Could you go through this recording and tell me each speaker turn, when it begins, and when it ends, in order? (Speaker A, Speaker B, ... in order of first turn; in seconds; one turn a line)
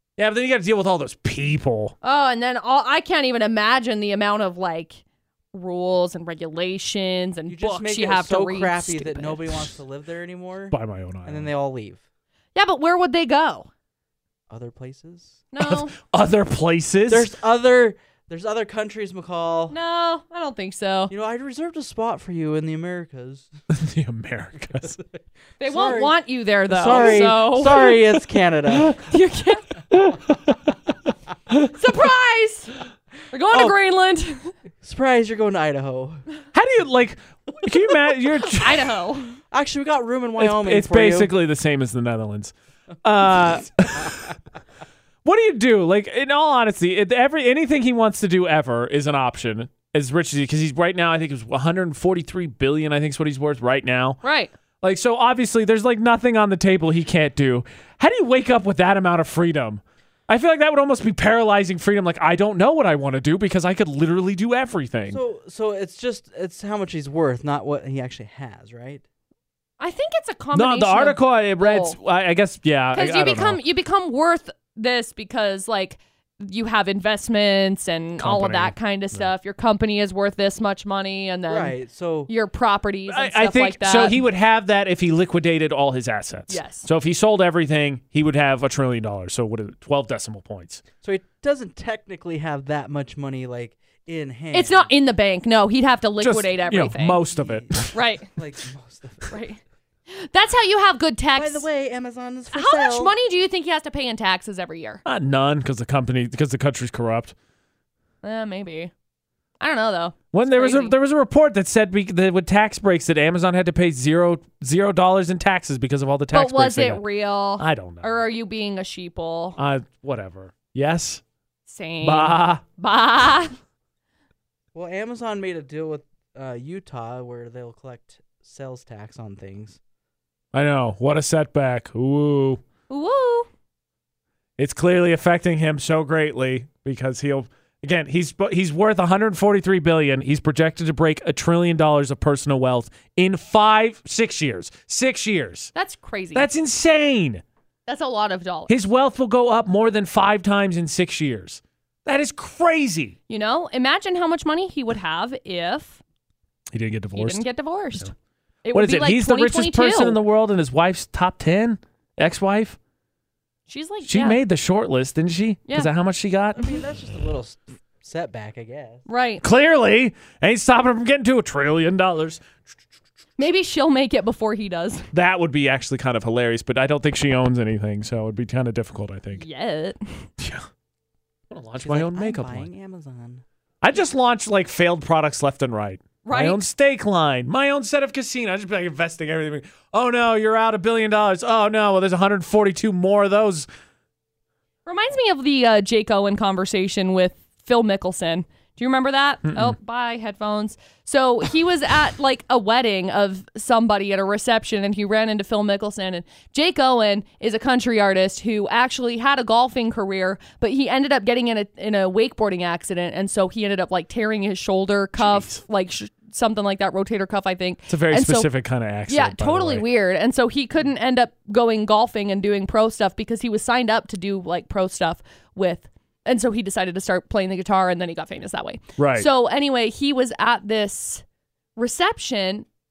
Speaker A: 0.2-1.9
Speaker B: 2.0-5.0
Speaker B: 5.5-9.7
Speaker C: 7.5-12.0
Speaker A: 10.7-11.5
Speaker B: 12.5-13.7
Speaker C: 14.5-15.3
Speaker B: 15.5-15.9
Speaker A: 15.6-17.3
Speaker C: 17.1-19.8
Speaker B: 19.7-21.1
Speaker C: 21.1-23.5
Speaker A: 23.7-25.0
Speaker C: 24.8-29.0
Speaker B: 25.6-28.0
Speaker B: 28.9-29.7
Speaker A: 29.9-30.7
Speaker B: 31.7-34.5
Speaker C: 34.8-36.2
Speaker A: 36.5-38.9
Speaker B: 38.0-39.4
Speaker C: 39.5-41.3
Speaker A: 40.4-44.4
Speaker A: 45.2-54.2
Speaker B: 54.2-54.5
Speaker A: 54.8-65.2
Speaker C: 65.1-69.0
Speaker B: 69.8-72.0
Speaker A: 70.5-73.6
Speaker B: 72.9-81.8
Speaker A: 78.2-79.3
Speaker C: 81.5-82.3
Speaker B: 82.3-84.2
Speaker A: 83.1-90.8
Speaker B: 86.5-86.9
Speaker C: 91.0-94.9
Speaker B: 94.5-97.2
Speaker A: 96.2-97.9
Speaker C: 97.3-99.3
Speaker B: 97.9-98.3
Speaker B: 99.3-101.7
Speaker C: 101.3-103.1
Speaker B: 102.5-105.0
Speaker A: 105.0-107.3
Speaker B: 108.2-108.9
Speaker B: 109.6-110.9
Speaker A: 110.3-117.0
Speaker B: 116.3-119.6
Speaker A: 117.6-118.2
Speaker A: 119.6-121.2
Speaker B: 121.7-123.5
Speaker A: 122.0-122.6
Speaker C: 124.7-129.8
Speaker A: 130.5-132.6
Speaker B: 132.9-133.5
Speaker A: 134.6-145.7
Speaker B: 145.7-146.5
Speaker A: 146.3-147.4
Speaker B: 147.9-148.7
Speaker A: 148.7-153.1
Speaker B: 153.3-156.0
Speaker A: 156.7-157.4
Speaker B: 157.1-158.1
Speaker B: 158.6-160.2
Speaker A: 158.7-162.8
Speaker B: 163.7-164.4
Speaker A: 164.1-166.8
Speaker C: 166.6-169.0
Speaker B: 169.1-169.4
Speaker A: 169.4-172.4
Speaker B: 173.4-175.1
Speaker A: 175.1-179.4
Speaker B: 179.4-180.3
Speaker A: 180.4-180.7
Speaker A: 181.5-182.7
Speaker C: 181.8-183.4
Speaker A: 183.8-193.7
Speaker B: 186.2-186.6
Speaker B: 194.8-218.5
Speaker A: 199.4-199.8
Speaker A: 215.2-215.6
Speaker A: 217.9-219.8
Speaker B: 219.1-231.2
Speaker A: 229.0-229.3
Speaker B: 231.8-232.7